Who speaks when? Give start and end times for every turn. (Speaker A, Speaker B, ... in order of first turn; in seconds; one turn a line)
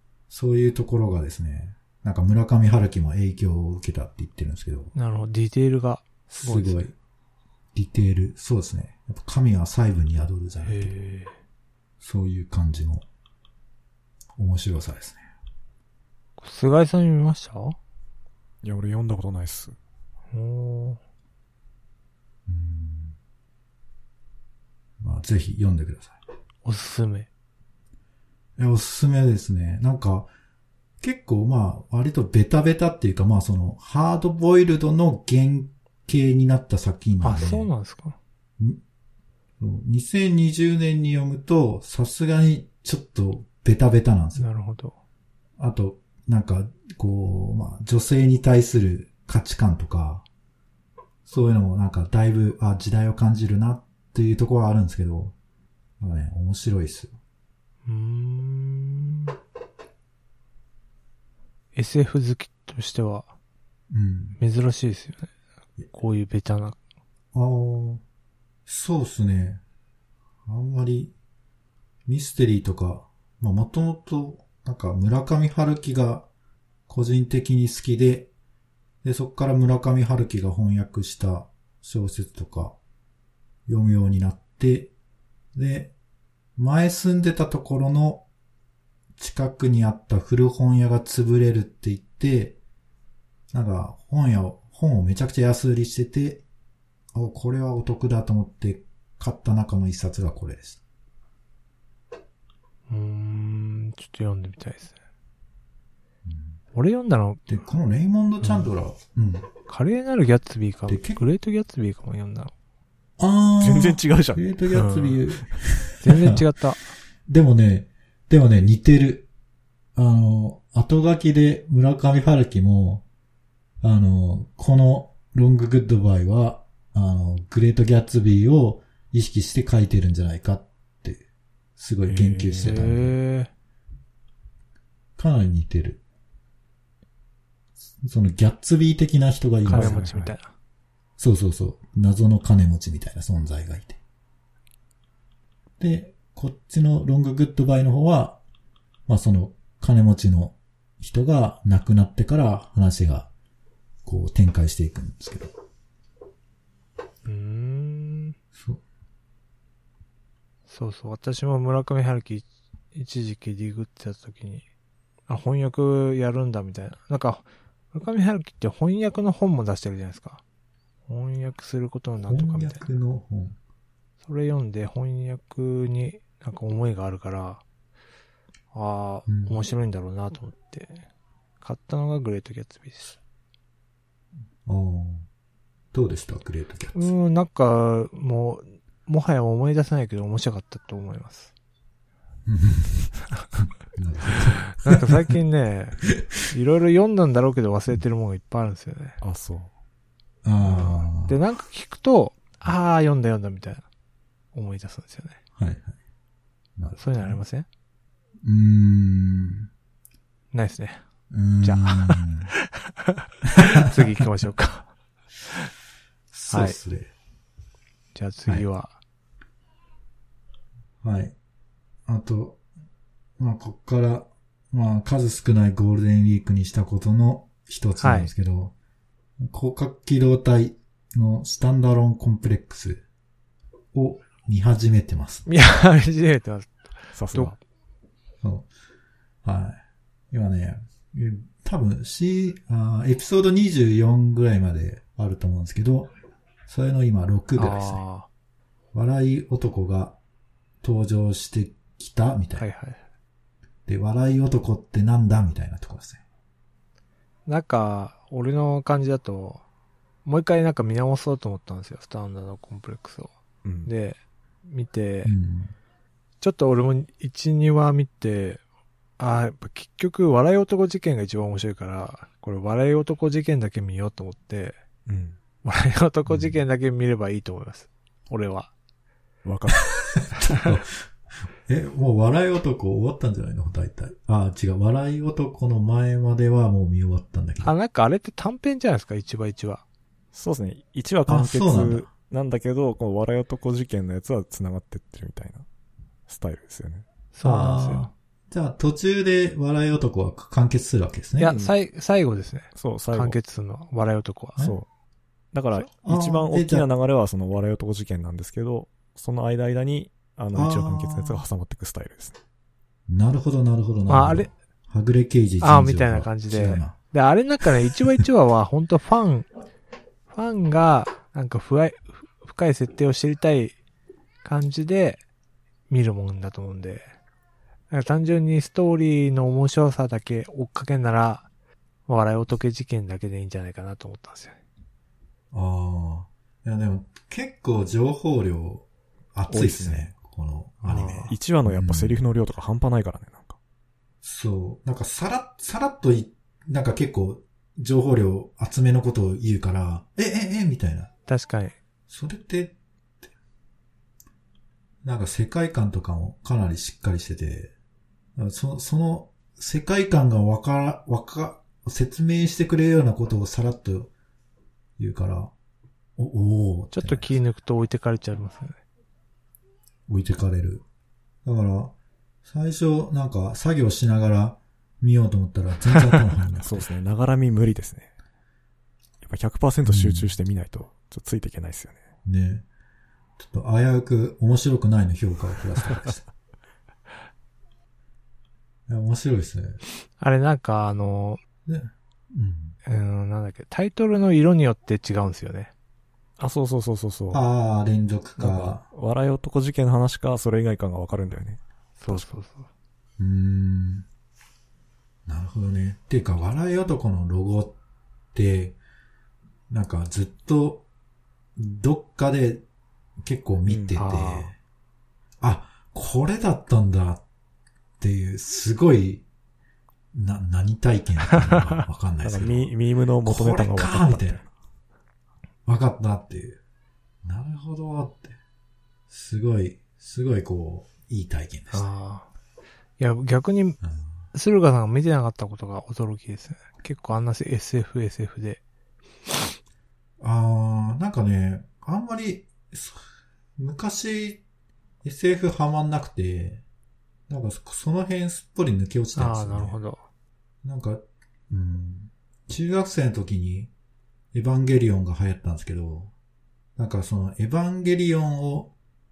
Speaker A: 0.3-4.9
Speaker B: 4.9-6.9
Speaker A: 6.3-6.9
Speaker A: 7.7-10.9
Speaker B: 10.6-11.3
Speaker A: 12.0-13.0
Speaker A: 14.4-15.2
Speaker B: 16.4-17.8
Speaker C: 18.6-19.8
Speaker B: 20.3-21.0
Speaker A: 22.5-23.1
Speaker A: 25.0-26.2
Speaker B: 26.6-27.3
Speaker A: 28.6-30.3
Speaker A: 31.0-37.7
Speaker B: 37.2-38.2
Speaker A: 39.6-44.4
Speaker B: 44.4-45.0
Speaker A: 45.6-50.2
Speaker A: 51.2-55.3
Speaker A: 56.0-57.1
Speaker B: 57.8-59.3
Speaker B: 61.7-63.3
Speaker A: 63.9-64.4
Speaker B: 64.4-65.3
Speaker B: 65.9-66.8
Speaker A: 67.3-68.0
Speaker A: 68.7-69.6
Speaker A: 70.5-71.1
Speaker A: 72.0-76.3
Speaker A: 76.9-78.3
Speaker A: 79.0-82.8
Speaker A: 83.7-84.9
Speaker A: 85.5-85.9
Speaker A: 86.6-88.2
Speaker A: 89.2-92.6
Speaker A: 93.5-96.4
Speaker A: 97.1-100.8
Speaker B: 102.9-105.0
Speaker A: 106.2-106.6
Speaker B: 106.7-107.5
Speaker A: 107.5-109.5
Speaker B: 109.7-112.5
Speaker A: 110.9-111.2
Speaker A: 113.2-116.4
Speaker C: 113.6-115.1
Speaker B: 114.8-115.0
Speaker B: 116.0-116.8
Speaker A: 117.3-119.3
Speaker A: 120.0-123.0
Speaker A: 123.8-131.2
Speaker A: 131.8-133.2
Speaker C: 132.1-132.7
Speaker B: 132.6-133.5
Speaker A: 135.2-136.0
Speaker A: 138.0-140.1
Speaker C: 139.7-140.3
Speaker B: 139.7-140.5
Speaker A: 141.2-144.0
Speaker A: 145.8-148.4
Speaker A: 149.1-153.3
Speaker A: 154.0-155.5
Speaker B: 157.2-158.3
Speaker A: 158.5-158.8
Speaker B: 160.7-164.6
Speaker B: 165.3-170.4
Speaker B: 171.1-172.8
Speaker A: 172.3-173.6
Speaker B: 174.2-177.6
Speaker B: 178.7-181.0
Speaker A: 179.3-179.6
Speaker B: 181.6-183.2
Speaker A: 184.7-185.3
Speaker A: 185.9-187.1
Speaker B: 186.9-191.5
Speaker A: 192.4-195.1
Speaker B: 194.8-199.2
Speaker C: 199.2-199.7
Speaker A: 200.4-201.4
Speaker B: 200.6-203.8
Speaker B: 204.5-205.4
Speaker A: 205.6-205.9
Speaker A: 206.8-207.4
Speaker B: 207.0-207.7
Speaker A: 208.4-209.7
Speaker B: 210.5-211.0
Speaker A: 211.3-212.5
Speaker B: 211.6-214.9
Speaker A: 213.6-213.9
Speaker A: 216.3-217.1
Speaker B: 216.5-216.8
Speaker B: 218.1-218.9
Speaker A: 221.0-221.3
Speaker A: 222.1-222.6
Speaker A: 223.4-228.7
Speaker B: 228.0-228.3
Speaker A: 229.4-233.0
Speaker A: 233.9-235.4
Speaker B: 235.5-236.8
Speaker C: 237.1-237.6
Speaker A: 238.4-238.7
Speaker A: 239.4-239.8
Speaker A: 240.3-246.1
Speaker A: 246.7-248.0
Speaker B: 247.6-248.3
Speaker A: 248.9-250.2
Speaker A: 250.8-252.7
Speaker B: 252.6-253.0
Speaker A: 253.9-256.2
Speaker B: 257.5-259.6
Speaker B: 260.2-263.3
Speaker C: 263.6-263.9
Speaker B: 263.8-265.3
Speaker A: 265.2-265.7
Speaker B: 266.4-268.6
Speaker B: 269.2-274.8
Speaker C: 275.1-275.4
Speaker B: 275.6-278.7
Speaker A: 276.3-276.6
Speaker C: 279.4-279.9
Speaker A: 280.1-287.7
Speaker B: 280.4-280.7
Speaker B: 287.6-289.8
Speaker C: 290.3-295.6
Speaker A: 291.3-292.1
Speaker C: 296.3-297.1
Speaker B: 297.3-298.1
Speaker A: 297.4-301.5
Speaker B: 301.4-304.7
Speaker C: 301.5-301.7
Speaker C: 302.7-303.4
Speaker C: 304.6-304.9
Speaker C: 305.5-312.4
Speaker A: 305.9-306.9
Speaker A: 310.5-311.4
Speaker A: 313.1-316.9
Speaker B: 314.1-314.5
Speaker B: 315.6-319.5
Speaker B: 320.3-323.7
Speaker B: 324.4-325.2
Speaker B: 325.9-327.1
Speaker B: 327.9-331.5
Speaker B: 332.1-334.6
Speaker A: 335.5-342.2
Speaker C: 339.5-340.1
Speaker B: 340.9-341.4
Speaker C: 341.3-343.6
Speaker A: 344.2-351.1
Speaker B: 351.3-351.8
Speaker A: 352.1-352.7
Speaker A: 355.0-357.7
Speaker A: 358.4-364.1
Speaker A: 365.0-365.5
Speaker A: 366.2-367.3
Speaker B: 366.9-368.8
Speaker A: 370.1-370.8
Speaker A: 371.4-376.9
Speaker C: 376.6-378.1
Speaker C: 379.2-382.0
Speaker A: 379.9-380.3
Speaker A: 382.2-382.6
Speaker A: 383.4-386.2
Speaker A: 388.9-389.8
Speaker B: 390.2-391.4
Speaker A: 391.6-392.8
Speaker B: 392.8-395.7
Speaker C: 396.4-397.4
Speaker A: 397.3-398.8
Speaker C: 398.4-402.3
Speaker B: 402.0-402.7
Speaker A: 403.2-404.1
Speaker A: 405.2-407.7
Speaker A: 408.3-408.8
Speaker A: 409.7-410.8
Speaker A: 411.6-412.6
Speaker A: 413.2-414.5
Speaker C: 413.6-414.0
Speaker B: 413.9-414.5
Speaker A: 415.4-417.2
Speaker A: 418.0-419.2
Speaker A: 420.1-422.7
Speaker C: 422.2-424.5
Speaker A: 423.2-424.4
Speaker A: 425.6-426.6
Speaker A: 427.2-428.4
Speaker A: 429.1-431.9
Speaker B: 431.7-432.3
Speaker B: 433.0-433.8
Speaker A: 433.8-434.1
Speaker B: 434.3-438.6
Speaker A: 440.2-443.0
Speaker A: 443.6-444.4
Speaker A: 445.0-446.6
Speaker A: 447.3-449.8
Speaker B: 449.1-450.0
Speaker A: 450.6-453.7
Speaker A: 454.3-456.1
Speaker A: 456.8-458.7